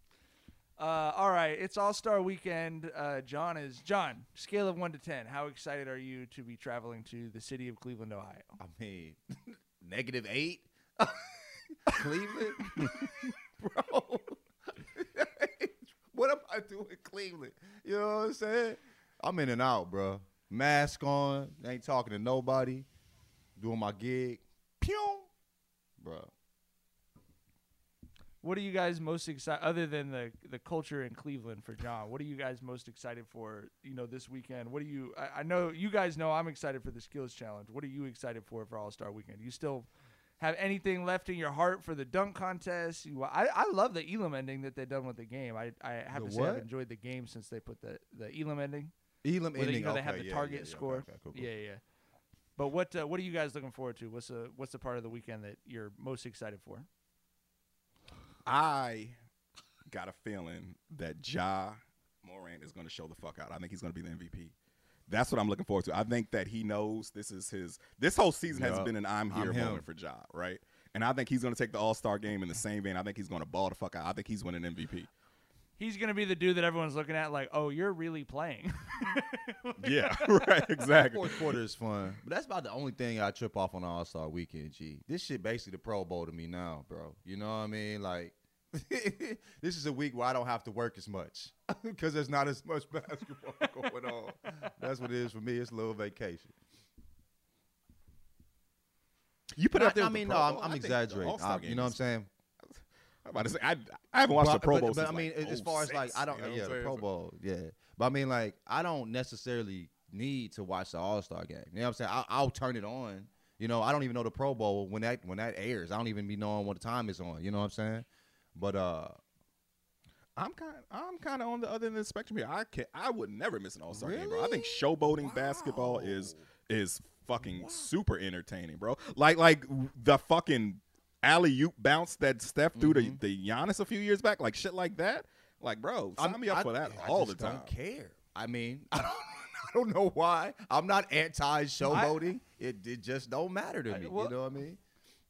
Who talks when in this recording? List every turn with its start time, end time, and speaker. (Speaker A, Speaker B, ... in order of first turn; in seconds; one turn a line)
Speaker A: 0.8-8.6
Speaker B: 8.6-22.9
Speaker B: 23.6-25.3
Speaker B: 26.0-26.3
Speaker A: 28.4-39.9
Speaker A: 40.4-48.9
Speaker B: 46.1-46.7
Speaker B: 49.2-51.5
Speaker A: 49.5-51.8
Speaker A: 52.6-56.9
Speaker C: 58.5-59.1
Speaker C: 59.9-64.5
Speaker C: 65.1-75.1
Speaker B: 68.5-69.8
Speaker A: 75.8-80.9
Speaker C: 79.8-81.5
Speaker B: 81.1-96.5
Speaker C: 99.6-102.0
Speaker B: 99.7-102.3
Speaker C: 102.7-107.0
Speaker B: 104.3-119.2
Speaker C: 120.4-137.7
Speaker B: 123.9-126.5
Speaker B: 127.4-127.9
Speaker B: 132.8-133.2
Speaker B: 136.2-144.8
Speaker A: 141.9-142.2
Speaker A: 143.9-144.3